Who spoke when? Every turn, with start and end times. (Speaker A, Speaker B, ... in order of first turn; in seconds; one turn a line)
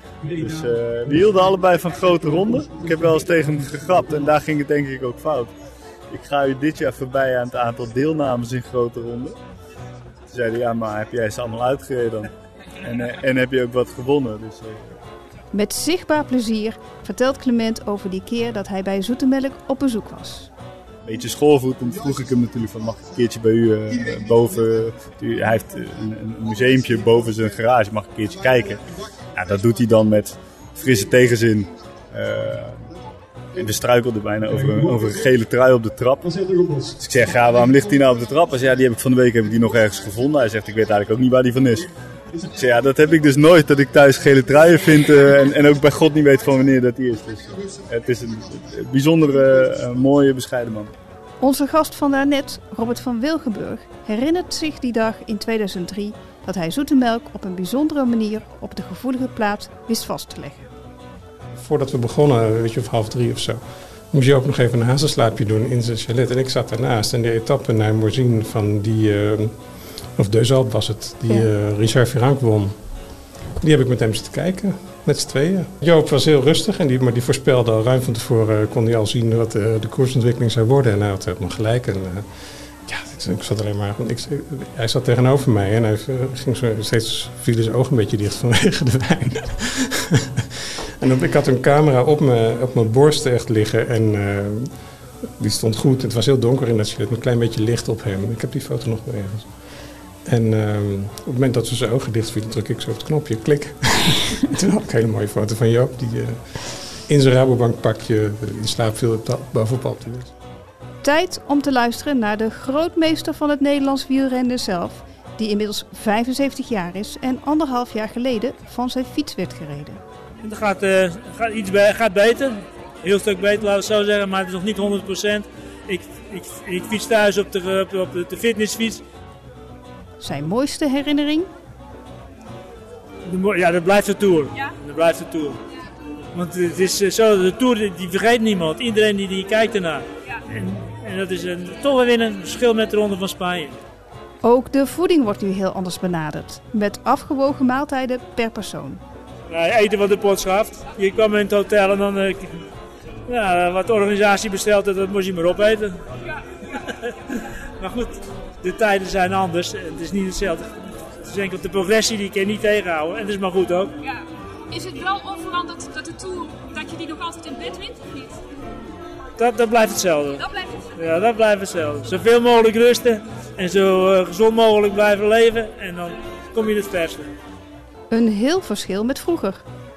Speaker A: 0.3-5.5
Speaker A: 6.1-9.4
Speaker A: 10.3-12.3
Speaker A: 12.8-14.9
Speaker B: 15.5-20.5
Speaker A: 21.0-32.9
Speaker A: 33.5-41.9
Speaker A: 42.5-50.9
Speaker B: 51.4-60.7
Speaker C: 61.5-72.9
Speaker C: 73.6-110.3
Speaker B: 111.0-120.0
Speaker D: 120.4-129.0
Speaker B: 130.2-131.5
Speaker D: 133.2-135.6
Speaker D: 136.3-143.8
Speaker B: 144.4-149.0
Speaker D: 149.5-152.6
Speaker D: 153.2-156.1
Speaker D: 157.3-163.9
Speaker E: 164.0-168.4
Speaker D: 169.4-170.4
Speaker E: 170.4-170.9
Speaker D: 170.9-177.3
Speaker B: 178.1-179.6